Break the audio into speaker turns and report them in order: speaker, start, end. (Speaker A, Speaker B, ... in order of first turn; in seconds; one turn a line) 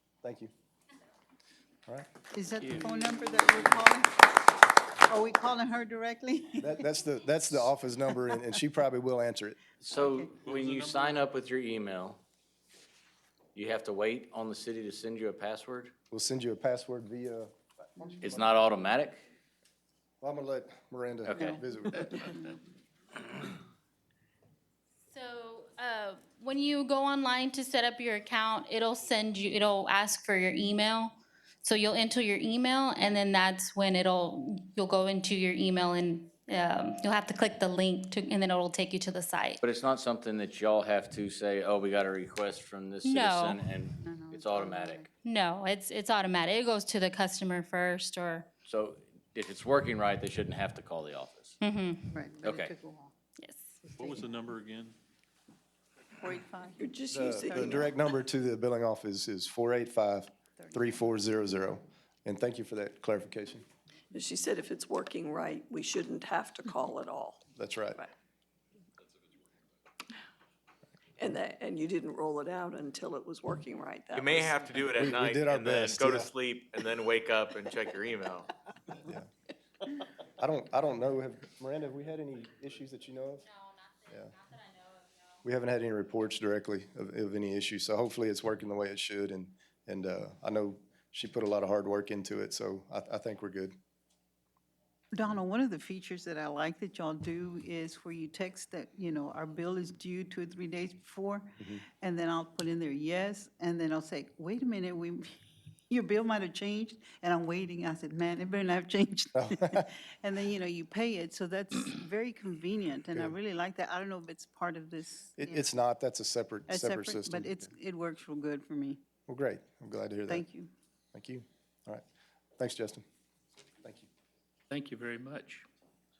Speaker A: 0.2-0.5
Speaker B: 2.3-4.2
Speaker C: 2.6-3.6
Speaker B: 5.1-6.9
Speaker A: 6.6-9.6
Speaker D: 9.8-12.2
Speaker B: 10.0-10.3
Speaker E: 10.3-11.3
Speaker D: 13.5-15.9
Speaker A: 16.1-18.6
Speaker D: 18.2-19.2
Speaker A: 20.2-22.3
Speaker D: 21.3-21.6
Speaker F: 25.1-39.6
Speaker D: 39.6-45.1
Speaker F: 43.0-43.6
Speaker B: 44.0-45.1
Speaker F: 45.2-48.5
Speaker D: 48.7-51.5
Speaker F: 51.6-52.1
Speaker B: 52.1-53.1
Speaker D: 52.4-52.7
Speaker F: 53.4-53.8
Speaker E: 53.9-55.0
Speaker B: 54.0-54.2
Speaker B: 56.2-58.0
Speaker G: 56.8-57.8
Speaker A: 57.1-63.6
Speaker B: 60.6-61.0
Speaker G: 64.1-67.4
Speaker A: 67.6-68.0
Speaker G: 71.2-74.7
Speaker H: 74.1-78.5
Speaker A: 74.8-76.3
Speaker A: 80.4-83.5
Speaker F: 83.4-85.4
Speaker A: 85.4-93.8
Speaker B: 95.1-105.4
Speaker B: 105.9-115.7
Speaker A: 109.4-109.9
Speaker A: 115.4-117.6
Speaker B: 116.7-119.0
Speaker A: 119.3-120.5
Speaker B: 120.3-120.7
Speaker A: 121.1-122.0
Speaker A: 122.6-123.0
Speaker C: 124.7-125.6